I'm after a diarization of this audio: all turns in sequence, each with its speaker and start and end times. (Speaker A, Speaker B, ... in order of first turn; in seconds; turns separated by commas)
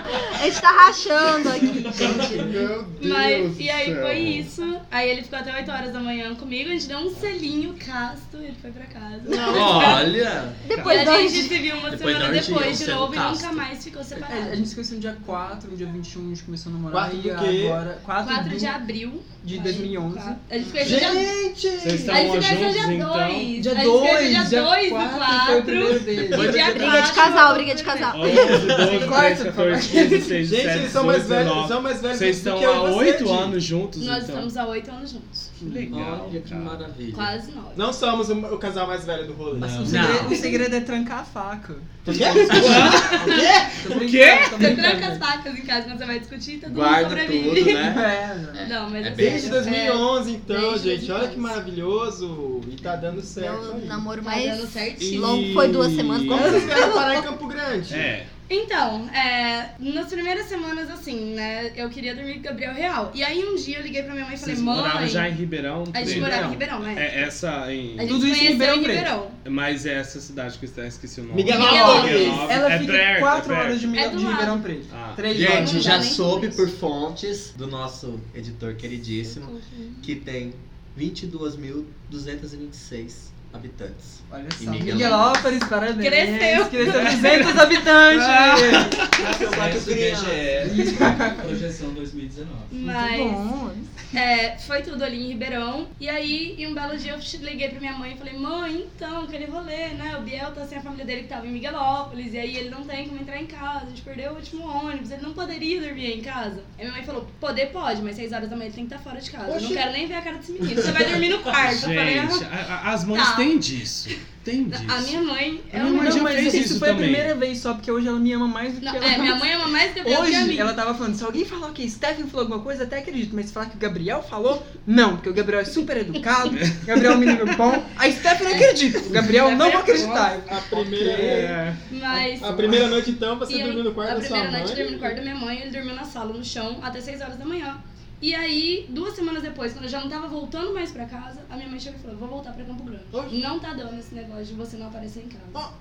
Speaker A: 0.2-2.6, Speaker B: 2.0-4.3, Speaker C: 3.0-10.2, Speaker D: 4.2-4.4, Speaker B: 9.2-10.1, Speaker E: 9.5-10.7, Speaker A: 10.6-11.6, Speaker D: 10.7-11.1, Speaker C: 10.8-14.6, Speaker E: 11.9-13.7, Speaker F: 14.1-18.8, Speaker B: 16.9-17.8, Speaker C: 18.2-21.3, Speaker F: 19.4-20.4, Speaker B: 20.8-22.5, Speaker D: 21.8-23.5, Speaker C: 22.1-28.6, Speaker F: 23.6-26.7, Speaker E: 26.3-27.1, Speaker A: 26.5-28.9, Speaker D: 28.1-34.5, Speaker F: 28.6-30.4, Speaker B: 30.4-33.6, Speaker C: 34.0-35.5, Speaker F: 35.6-36.0, Speaker D: 35.6-37.0, Speaker E: 35.9-37.4, Speaker C: 37.1-37.9, Speaker B: 37.7-40.1, Speaker E: 39.5-40.6, Speaker F: 39.6-43.1, Speaker C: 40.3-40.6, Speaker E: 42.0-43.4, Speaker B: 42.0-43.8, Speaker D: 42.5-43.3, Speaker C: 43.1-43.6, Speaker F: 43.7-45.2, Speaker D: 43.9-44.8, Speaker C: 44.5-48.0, Speaker E: 46.6-48.1, Speaker F: 47.8-48.7, Speaker C: 48.6-51.5, Speaker E: 49.0-49.6, Speaker B: 49.1-54.0, Speaker A: 53.4-57.2, Speaker C: 54.2-55.6, Speaker D: 55.0-56.8, Speaker B: 56.3-58.1, Speaker D: 57.9-58.3, Speaker C: 58.5-65.3, Speaker D: 64.4-68.4, Speaker C: 65.9-67.2, Speaker F: 66.0-66.6, Speaker C: 68.0-69.4, Speaker F: 68.0-69.1, Speaker D: 69.4-73.9, Speaker B: 71.3-72.6, Speaker C: 71.5-72.5, Speaker F: 72.0-76.2, Speaker C: 73.9-74.7, Speaker D: 74.9-75.3, Speaker E: 75.3-85.4, Speaker C: 75.4-76.6, Speaker C: 79.2-80.1, Speaker F: 84.3-89.0, Speaker C: 84.9-87.5, Speaker D: 86.8-89.5, Speaker E: 89.2-90.5, Speaker G: 89.2-92.8, Speaker F: 90.6-91.5, Speaker C: 92.7-93.4, Speaker F: 92.8-93.9, Speaker C: 94.1-112.5, Speaker B: 109.5-109.8, Speaker D: 111.5-117.3, Speaker C: 113.1-113.6, Speaker C: 114.7-116.7, Speaker F: 115.8-119.5, Speaker C: 118.8-120.7, Speaker F: 120.0-131.6, Speaker D: 126.5-127.1, Speaker C: 128.5-130.4, Speaker B: 130.4-135.2, Speaker D: 131.2-131.7, Speaker C: 131.9-145.6